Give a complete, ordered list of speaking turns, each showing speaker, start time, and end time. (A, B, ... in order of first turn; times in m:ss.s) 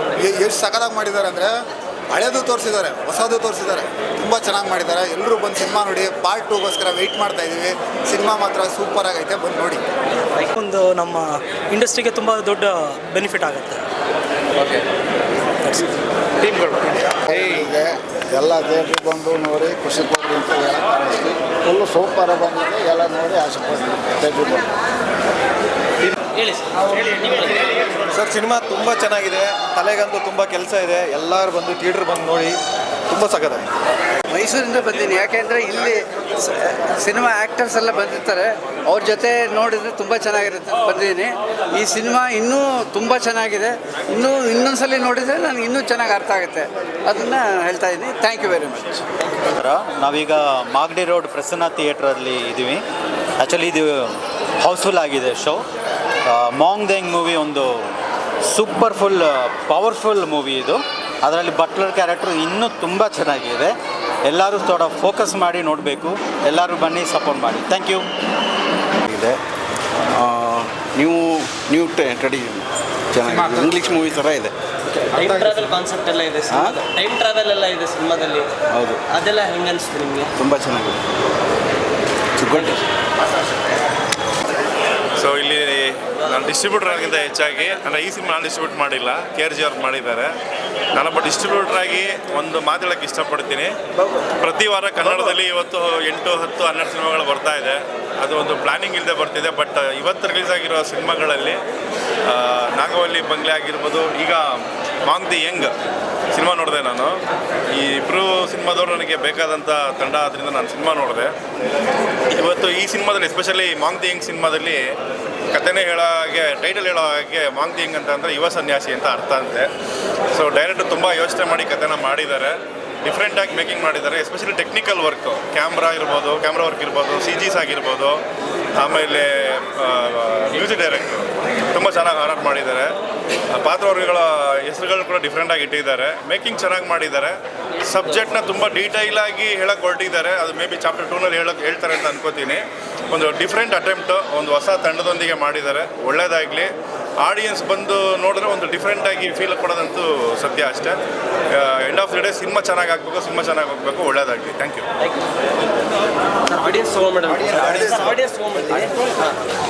0:00.2-0:01.5 A
0:02.1-0:09.8 A
0:10.6-0:13.8 B
0:17.3-0:24.6 C
0:26.4-0:27.6 D
0:28.1-0:33.7 E
0:34.3-0:49.0 F
0:49.6-0:52.8 G
0:53.4-0:55.6 G
0:56.3-0:57.9 G
0:58.5-1:03.7 G
1:04.2-1:08.1 G
1:09.1-1:09.4 H
1:10.2-1:14.5 H
1:15.1-1:18.5 D
1:16.5-1:16.8 H
1:18.7-1:19.0 H
1:19.1-1:20.3 D
1:20.4-1:21.0 H
1:22.4-1:22.8 H
1:25.2-1:30.3 I
1:30.9-1:33.8 I
1:34.4-1:41.6 I
1:42.3-1:45.7 I
1:46.3-1:47.2 I
1:47.7-1:51.3 I
1:52.3-1:54.9 I
1:55.5-1:59.7 I
2:00.3-2:08.2 I
2:08.8-2:12.9 I
2:13.5-2:31.0 I
2:31.5-2:34.9 I
2:36.5-2:39.4 D